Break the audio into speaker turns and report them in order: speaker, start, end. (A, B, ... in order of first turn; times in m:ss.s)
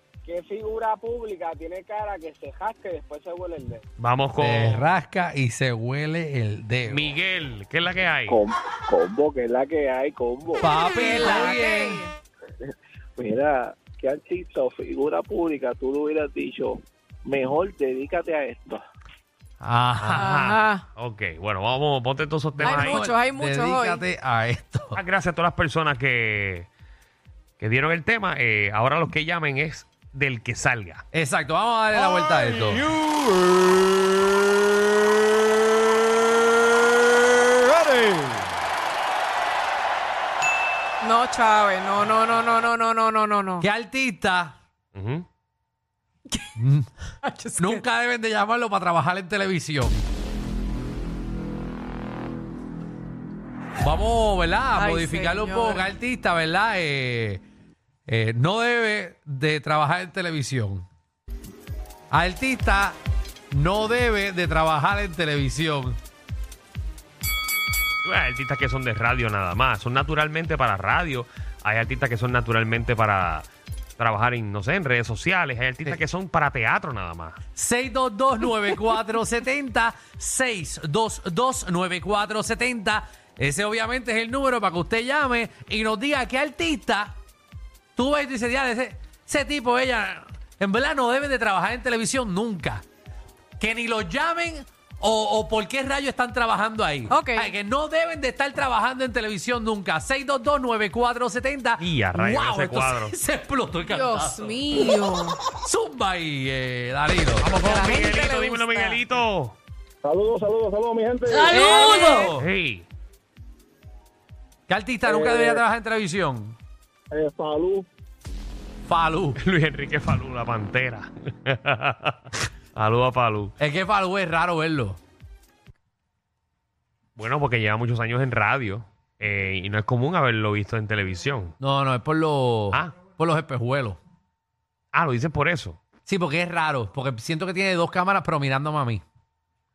0:00.2-0:03.8 A
0:04.0-0:04.9 B
0:04.4-0:07.1 C
0:06.9-0:08.4 B
0:08.3-0:10.7 D
0:09.8-0:10.4 A
0:10.6-0:12.0 C
0:10.8-0:12.1 E
0:12.6-0:14.7 A
0:13.2-0:18.8 D
0:19.6-0:20.3 C
0:20.0-0:23.0 B
0:20.2-0:20.8 E
0:22.5-0:25.0 C
0:22.6-0:24.0 E
0:24.9-0:26.7 B
0:27.6-0:31.0 B
0:31.1-0:32.9 C
0:32.0-0:32.8 B
0:37.5-0:38.4 C
0:41.0-0:43.6 E
0:43.6-0:44.6 C
0:44.9-0:45.2 B
0:46.6-0:46.9 C
0:47.2-0:47.8 E
0:47.6-0:50.0 C
0:53.8-0:57.4 C
0:54.8-0:55.9 E
0:58.1-1:00.8 C
1:02.1-1:03.0 C
1:03.5-1:06.0 C
1:08.0-1:17.4 B
1:17.6-1:27.2 C
1:28.0-1:32.8 C
1:33.6-1:44.8 C
1:37.1-1:37.5 E
1:41.8-1:43.1 B
1:43.8-1:45.4 E
1:45.5-1:47.5 C
1:47.4-1:49.6 B
1:47.6-1:49.0 E
1:50.0-1:51.6 D
1:51.3-1:52.5 C
1:51.5-1:52.3 E
1:52.4-1:52.9 B
1:54.7-1:56.6 C
1:55.0-1:55.6 A
1:57.1-1:57.9 A
1:58.8-1:59.4 C
1:59.4-2:02.2 B
2:02.7-2:03.5 B
2:03.6-2:05.0 C
2:07.2-2:11.5 B
2:11.6-2:14.0 C
2:14.9-2:15.8 B
2:16.0-2:19.0 C